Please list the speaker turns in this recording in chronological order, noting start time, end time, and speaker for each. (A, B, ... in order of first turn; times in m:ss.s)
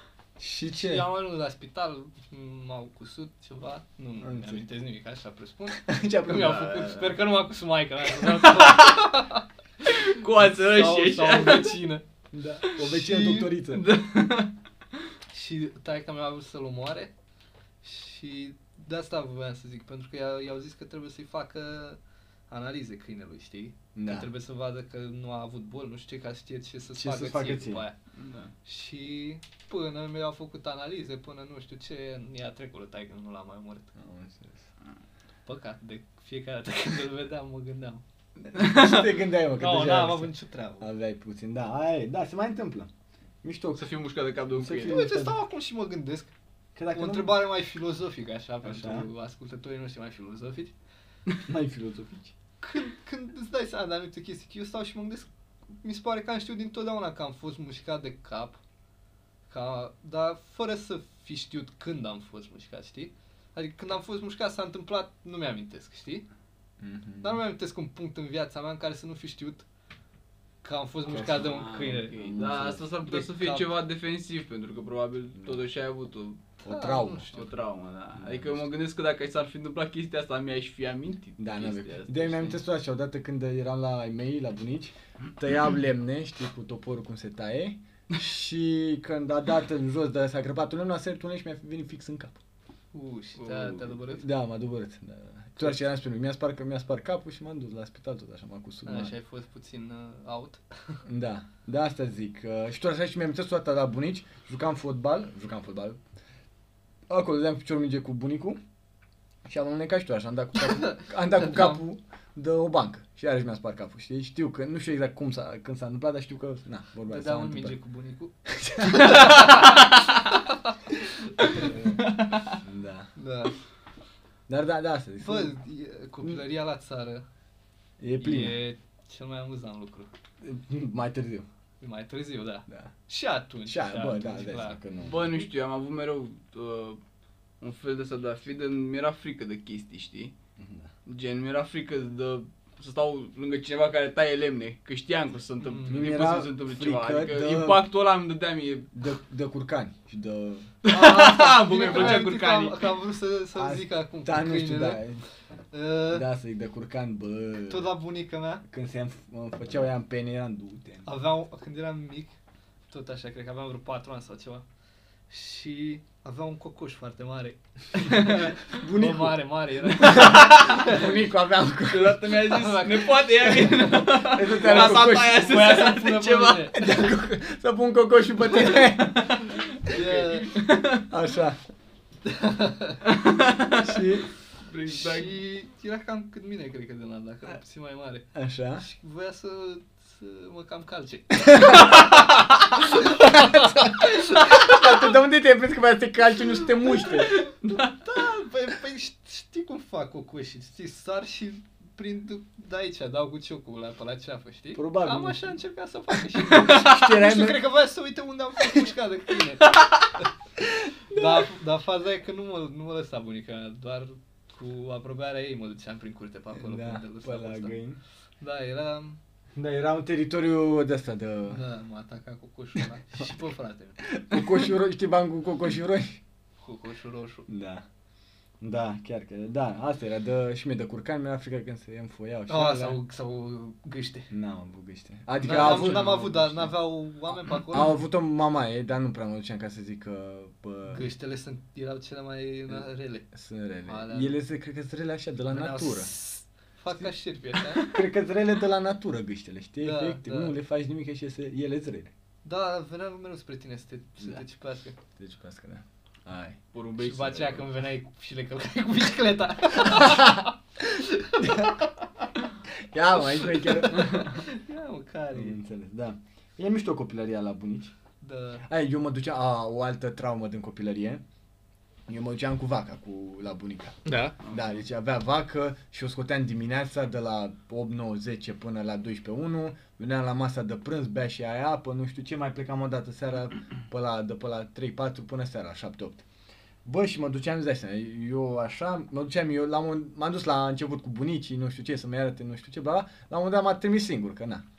0:00.4-0:01.0 A
0:00.7-0:09.4 B
0:04.2-0:04.6 A
0:05.8-0:06.7 A
0:06.3-0:07.2 C
0:08.5-0:09.1 C
0:09.8-0:11.8 C
0:10.4-0:12.0 B
0:12.3-0:13.9 A
0:12.8-0:13.5 B
0:13.7-0:14.5 C
0:15.3-0:17.1 B
0:17.8-0:28.0 B
0:23.9-0:24.3 A
0:27.0-0:27.8 A
0:28.2-0:28.5 C
0:28.6-0:33.9 B
0:34.0-0:34.7 A
0:35.4-0:38.0 B
0:38.5-0:42.9 A
0:38.5-0:39.0 C
0:39.6-0:40.9 B
0:43.4-0:43.9 A
0:43.8-0:45.0 C
0:44.5-0:45.4 A
0:44.8-0:46.3 B
0:46.7-0:47.4 A
0:46.9-0:50.7 B
0:48.6-0:49.1 A
0:51.4-0:52.3 A
0:52.6-0:55.3 B
0:55.8-0:58.6 B
0:59.5-1:06.2 B
1:06.8-1:07.4 A
1:07.2-1:09.6 B
1:10.6-1:12.2 B
1:11.1-1:11.5 A
1:11.2-1:16.4 C
1:12.1-1:12.8 A
1:13.0-1:13.7 B
1:16.6-1:17.4 B
1:16.6-1:17.3 A
1:17.3-1:22.6 C
1:18.2-1:18.6 A
1:21.4-1:32.4 A
1:32.9-1:34.2 B
1:33.4-1:34.0 C
1:34.2-1:39.1 A
1:38.8-1:41.0 B
1:41.0-1:46.0 A
1:47.1-1:48.6 A
1:49.4-1:57.7 A
1:57.1-1:59.9 B
1:58.5-1:59.4 A
1:59.1-1:59.8 C
2:01.4-2:01.7 B
2:01.4-2:02.6 C
2:01.6-2:03.1 A
2:03.2-2:03.5 B
2:04.5-2:05.5 A
2:05.2-2:07.2 B
2:08.0-2:08.6 A
2:08.2-2:10.1 B
2:10.4-2:11.5 A
2:11.8-2:14.8 B
2:13.6-2:15.3 A
2:15.0-2:17.0 C
2:17.6-2:20.3 C
2:20.6-2:20.9 A
2:21.0-2:28.9 C
2:25.6-2:26.1 B
2:25.9-2:27.8 A
2:28.9-2:30.7 A
2:30.8-2:32.9 C
2:30.9-2:35.0 B
2:31.9-2:32.2 A
2:33.5-2:35.2 A
2:35.7-2:36.2 B
2:36.1-2:37.9 A
2:37.7-2:38.6 B
2:38.7-2:41.1 A
2:41.0-2:42.4 B
2:42.9-2:44.6 B
2:45.3-2:51.0 B
2:48.0-2:48.5 C
2:48.7-2:52.3 A
2:50.0-2:51.0 C
2:51.9-2:56.8 C
2:52.3-2:56.9 B
2:54.2-2:55.7 A
2:56.7-2:59.4 A
2:58.8-3:01.0 C
2:59.8-3:00.5 B
3:01.1-3:01.6 A
3:02.2-3:03.0 B
3:03.0-3:04.0 C
3:03.8-3:04.3 A
3:04.6-3:05.4 C
3:04.9-3:14.8 B
3:08.3-3:08.8 A
3:11.5-3:11.9 A
3:13.0-3:17.4 A
3:16.9-3:30.3 B
3:24.7-3:25.5 A
3:26.4-3:27.6 A
3:31.1-3:37.7 B
3:36.5-3:38.0 A
3:38.4-3:39.2 B
3:39.6-3:41.6 A
3:41.5-3:44.1 B
3:44.0-3:46.2 A
3:46.6-3:47.5 B
3:47.5-3:47.8 A
3:48.6-3:53.0 A
3:52.5-3:54.3 B
3:54.3-3:56.8 A
3:55.4-3:58.0 B
3:55.4-3:56.2 C
3:57.5-4:01.0 A
4:00.9-4:03.3 B
4:02.7-4:06.1 A
4:03.8-4:04.3 B
4:05.5-4:07.9 B
4:07.8-4:12.1 A
4:09.8-4:10.5 B
4:12.4-4:15.0 B
4:15.2-4:16.6 A
4:16.7-4:17.7 C
4:17.0-4:21.8 B
4:21.4-4:21.8 A
4:22.8-4:24.4 A
4:23.4-4:25.6 B
4:25.3-4:27.9 A
4:28.2-4:28.6 B
4:28.6-4:31.2 A
4:32.1-4:46.2 A
4:34.0-4:34.4 B
4:34.4-4:34.7 C
4:46.8-4:54.6 A